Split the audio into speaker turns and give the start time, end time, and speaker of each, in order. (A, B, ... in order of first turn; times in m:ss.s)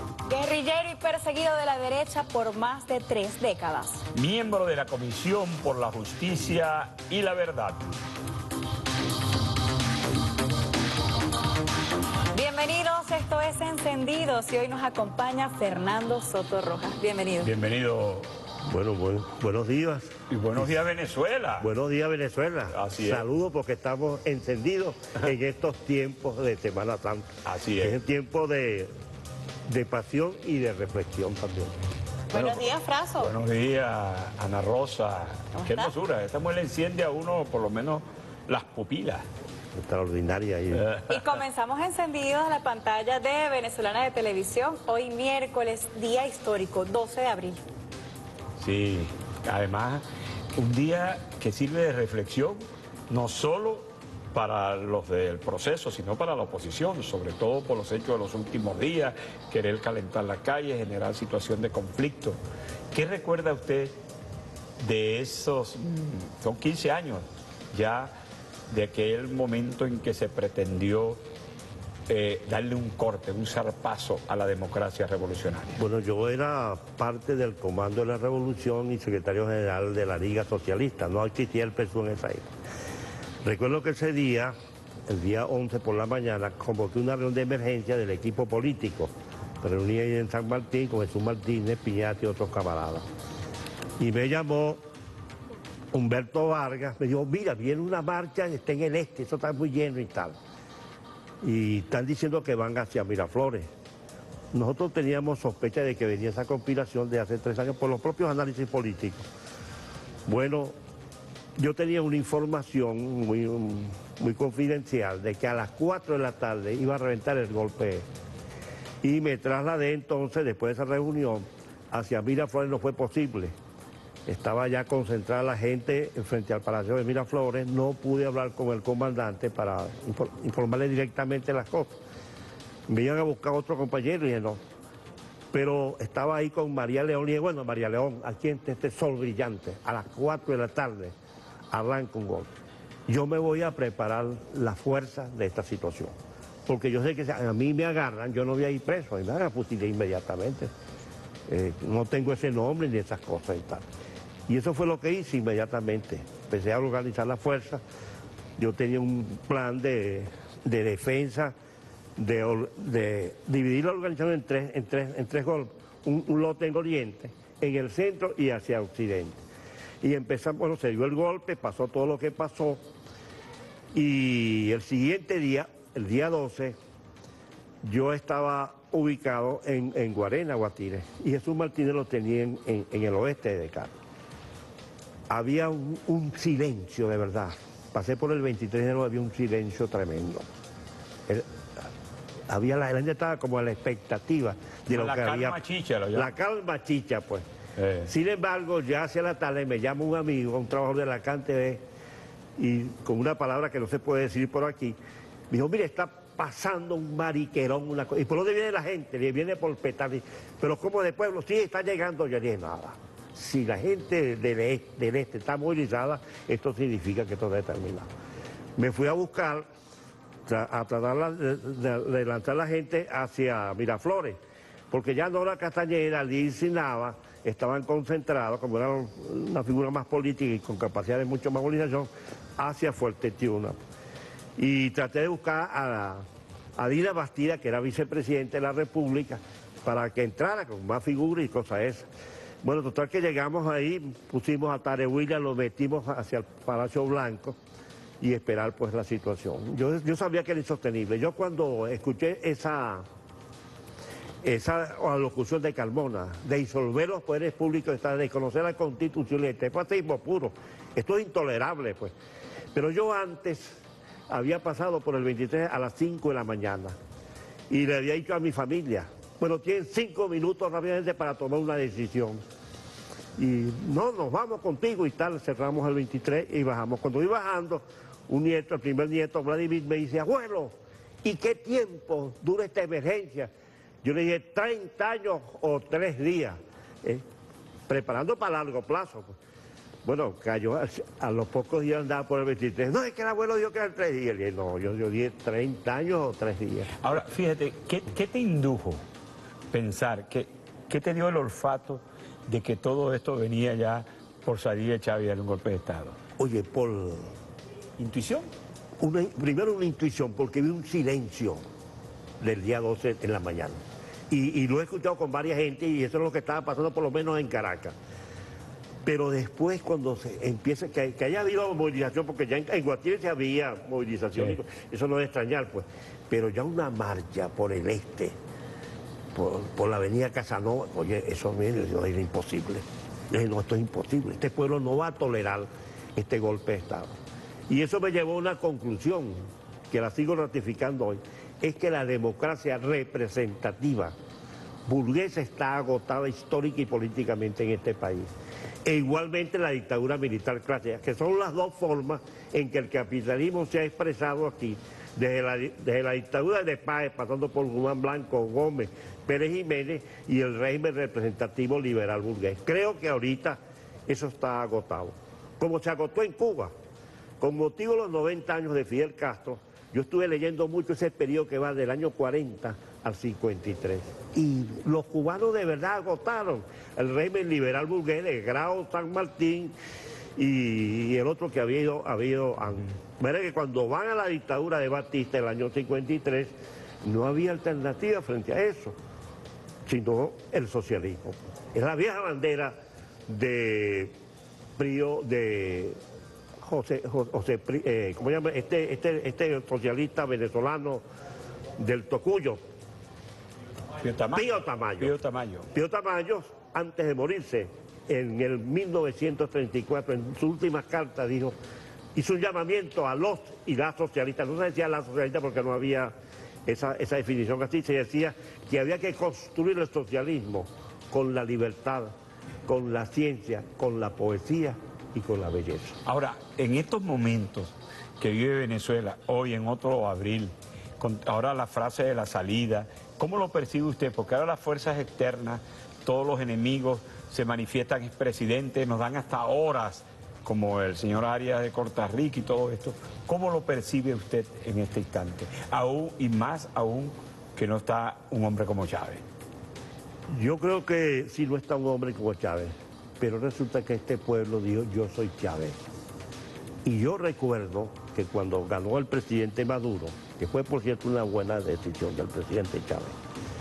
0:00.3-0:04.0 A
0:04.1-0:08.0 B
0:12.3-0:17.5 A
0:17.4-0:18.3 B
0:18.6-0:20.8 C
0:20.3-0:21.7 B
0:21.6-0:28.9 C
0:22.7-0:23.2 B
0:27.4-0:28.0 B
0:29.7-0:31.8 C
0:32.3-0:33.3 A
0:32.3-0:32.7 B
0:33.2-0:39.2 B
0:35.6-0:35.9 A
0:39.7-0:40.8 C
0:40.7-0:41.2 B
0:41.1-0:47.6 A
0:48.6-0:50.0 B
0:50.6-1:02.4 B
1:02.9-1:04.0 B
1:04.8-1:08.1 B
1:08.7-1:11.2 B
1:12.1-1:15.8 B
1:15.8-1:22.5 C
1:23.4-1:24.5 C
1:25.1-1:33.0 C
1:34.0-1:34.8 C
1:35.9-1:40.4 C
1:41.4-1:43.7 C
1:44.5-1:49.2 C
1:50.2-1:50.8 C
1:51.6-1:58.0 C
1:59.0-2:03.5 C
2:04.2-2:12.0 C
2:12.9-2:14.6 C
2:15.5-2:21.1 C
2:21.7-2:22.5 C
2:23.1-2:26.1 C
2:26.6-2:30.7 C
2:31.5-2:33.8 C
2:34.5-2:37.8 C
2:38.6-2:41.5 C
2:42.2-2:49.4 C
2:50.0-2:52.8 C
2:53.9-2:56.8 C
2:57.8-3:04.0 C
3:05.3-3:10.4 C
3:12.5-3:15.6 C
3:14.9-3:16.3 B
3:16.1-3:17.4 C
3:17.8-3:18.1 B
3:18.1-3:21.8 C
3:22.6-3:25.0 C
3:25.5-3:38.1 C
3:38.8-3:39.7 C
3:40.4-3:44.4 C
3:44.9-3:53.8 C
3:54.6-3:56.2 C
3:56.8-4:02.1 C
4:02.6-4:07.6 C
4:08.2-4:13.0 C
4:14.4-4:22.1 C
4:22.7-4:27.0 C
4:27.7-4:32.4 C
4:33.4-4:43.5 C
4:44.0-4:47.2 C
4:47.9-4:49.4 C
4:50.0-4:56.9 C
4:57.0-4:59.0 B
4:59.7-5:06.2 B
5:06.4-5:07.3 C
5:08.0-5:08.5 B
5:09.0-5:11.6 C
5:12.4-5:17.9 C
5:19.0-5:28.4 C
5:29.3-5:37.2 C
5:37.7-5:44.1 C
5:44.9-5:48.3 C
5:48.8-6:06.7 C
6:07.4-6:19.8 C
6:20.4-6:28.9 C
6:29.8-6:32.7 C
6:33.3-6:34.1 C
6:34.8-6:36.0 C
6:36.6-6:41.0 C
6:41.8-6:42.6 C
6:44.0-6:45.7 B
6:44.3-6:45.1 C
6:45.7-6:51.6 C
6:52.1-6:56.1 C
6:56.6-7:02.1 C
7:02.6-7:06.0 C
7:06.0-7:29.2 B
7:30.3-7:35.8 C
7:36.8-7:43.2 C